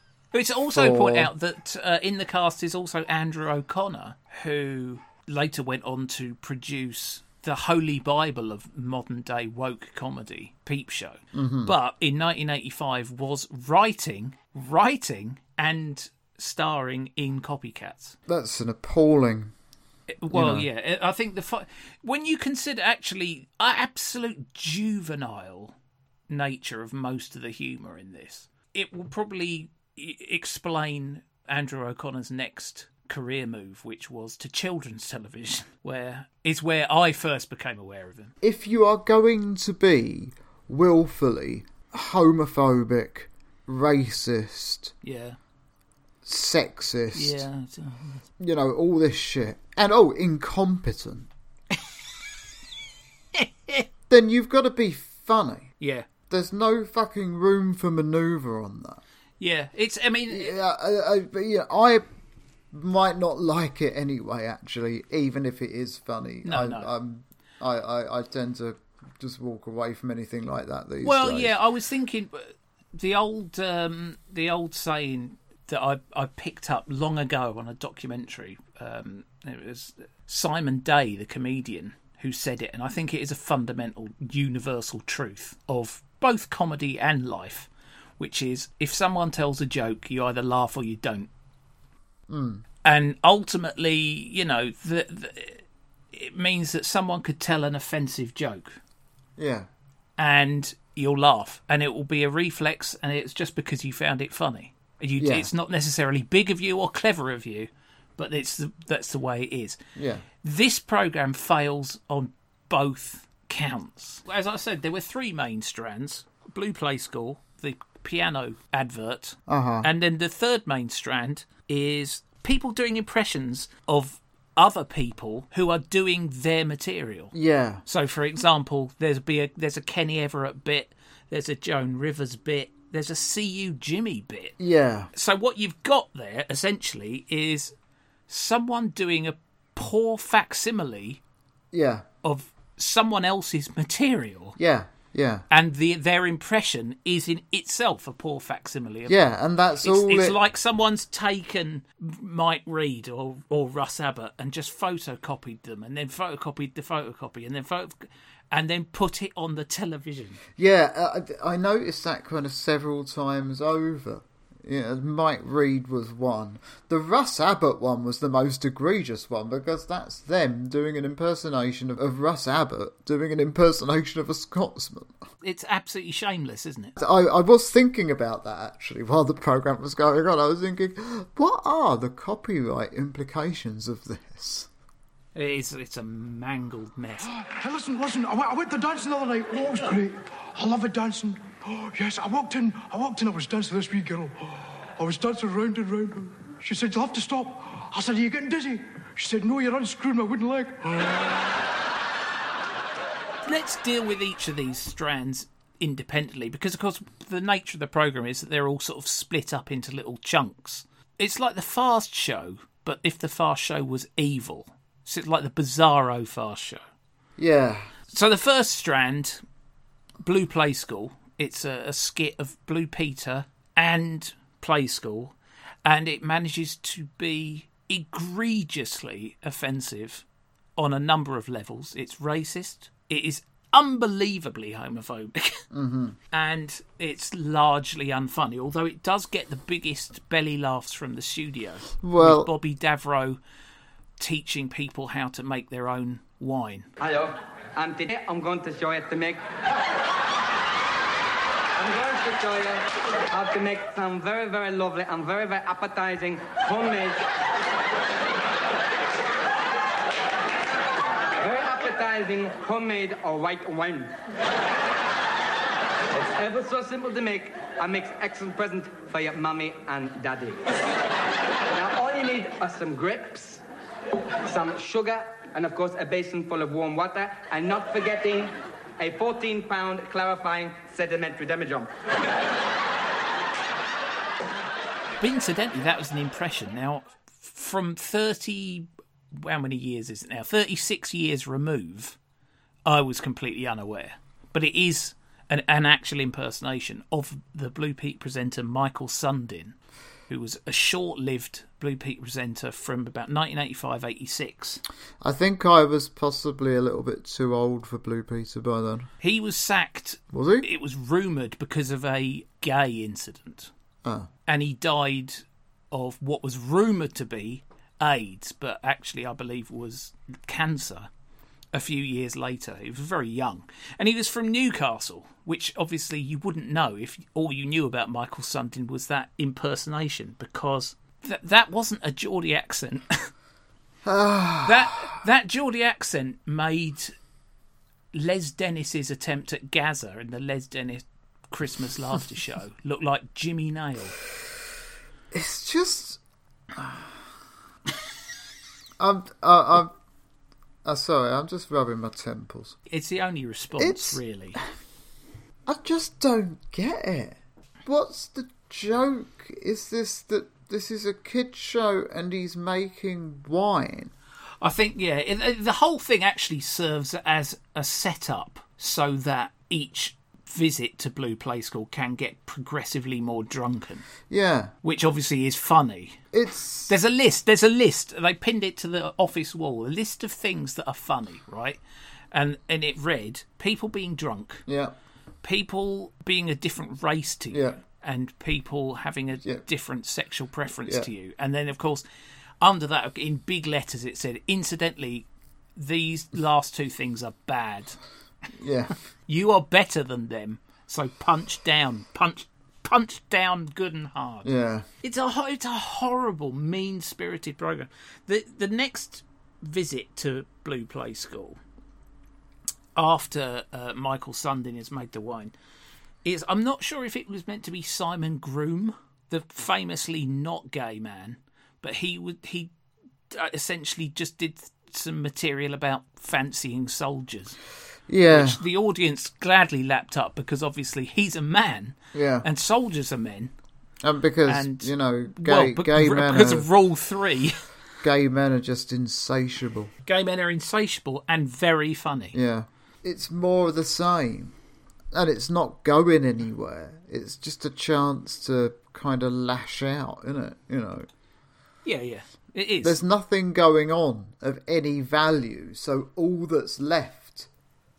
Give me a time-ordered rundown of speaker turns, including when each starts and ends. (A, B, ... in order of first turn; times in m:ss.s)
0:00.3-0:18.2 A
0:00.7-0:01.3 B
0:11.3-0:11.8 B
0:18.3-0:19.5 B
0:20.1-0:25.8 A
0:20.3-0:20.7 B
0:26.3-0:38.3 A
0:38.4-0:44.9 B
0:45.0-0:45.4 A
0:46.2-0:47.4 B
0:47.1-0:48.2 A
0:48.4-0:51.3 B
0:53.4-0:53.8 A
0:54.1-0:55.7 B
0:55.8-0:56.1 A
0:56.3-0:59.0 B
0:59.4-1:00.6 A
1:00.3-1:02.0 B
1:02.7-1:11.6 B
1:06.4-1:06.9 A
1:11.0-1:31.3 A
1:32.3-1:32.6 B
1:32.8-1:38.8 A
1:39.4-1:39.7 B
1:40.2-1:49.8 A
1:45.2-1:45.5 B
1:50.0-1:50.3 B
1:50.4-2:07.3 A
1:59.5-1:59.9 B
2:07.3-2:07.8 B
2:07.9-2:14.6 A
2:14.6-2:15.1 B
2:15.1-2:17.7 A
2:18.3-2:21.2 A
2:21.7-2:22.1 B
2:22.2-2:24.6 A
2:24.6-2:25.5 B
2:25.5-2:29.2 A
2:29.1-2:30.4 B
2:29.8-2:40.4 A
2:40.6-2:55.2 B
2:55.4-2:57.0 A
2:57.0-3:04.7 B
3:05.4-3:07.3 A
3:07.2-3:21.5 C
3:23.4-3:36.8 A
3:37.4-3:37.9 B
3:38.1-3:39.4 A
3:40.2-3:50.2 A
3:50.8-3:55.6 A
3:55.7-3:56.2 B
3:56.3-4:03.4 A
4:02.0-4:02.5 B
4:04.2-4:06.9 A
4:07.0-4:09.4 D
4:11.8-4:17.2 D
4:21.4-4:24.1 D
4:26.1-4:30.7 D
4:31.7-4:33.6 D
4:34.4-4:41.9 D
4:45.2-4:52.2 A
4:52.9-4:59.8 A
5:00.3-5:04.8 A
5:05.2-5:09.1 B
5:09.2-5:13.7 A
5:10.3-5:10.7 B
5:14.5-5:21.1 A
5:21.7-5:33.3 A
5:34.0-5:35.0 B
5:34.6-5:37.2 A
5:38.1-5:44.2 A
5:45.3-5:46.2 B
5:46.7-5:47.2 B
5:49.0-5:49.9 B
5:50.8-5:52.8 B
5:52.9-5:54.6 A
5:53.8-5:54.6 B
5:55.7-6:04.1 B
6:04.6-6:14.1 A
6:14.3-6:14.7 B
6:14.8-6:16.2 A
6:16.3-6:16.9 B
6:16.9-6:21.8 A
6:22.3-6:24.6 A
6:24.7-6:25.0 B
6:25.4-6:32.0 A
6:27.5-6:27.8 B
6:32.6-6:38.0 A
6:38.6-6:38.9 B
6:39.3-6:44.5 A
6:44.4-6:44.9 B
6:45.0-6:51.6 A
6:53.0-6:55.5 A
6:56.2-7:02.7 A
7:03.3-7:07.6 A
7:08.1-7:08.6 B
7:08.3-7:13.5 A
7:12.1-7:12.5 B
7:14.0-7:16.7 B
7:14.5-7:17.6 A
7:18.0-7:19.9 B
7:20.1-7:22.4 A
7:22.3-7:24.6 B
7:25.1-7:31.1 B
7:31.8-7:33.0 A
7:32.8-7:37.5 B